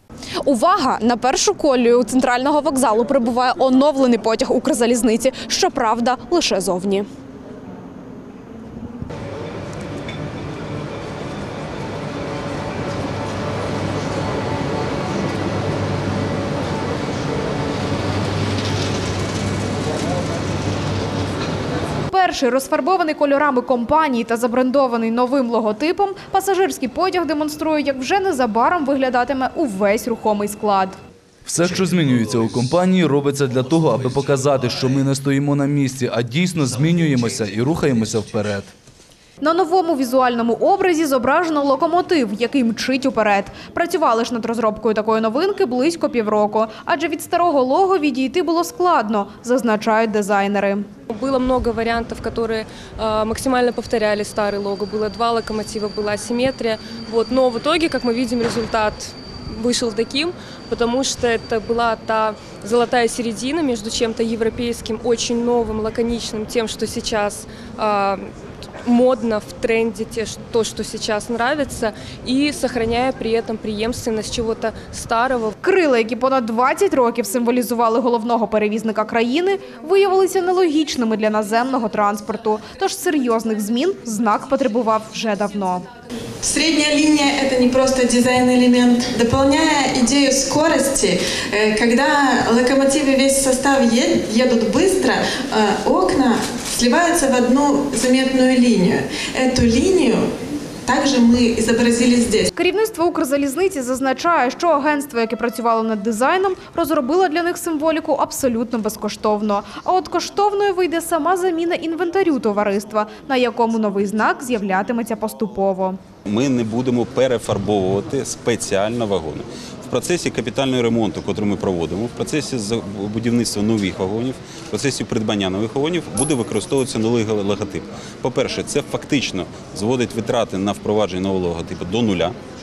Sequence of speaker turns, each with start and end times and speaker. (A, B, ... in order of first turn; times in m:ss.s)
0:00.4-0:07.0 A
0:22.1-0:30.9 A
0:31.4-0:38.7 B
0:39.4-0:50.8 A
0:51.1-1:08.3 C
1:08.8-1:15.5 C
1:15.6-1:25.8 A
1:26.4-1:40.3 D
1:40.8-1:42.5 D
1:42.5-1:56.0 A
1:56.3-2:12.3 E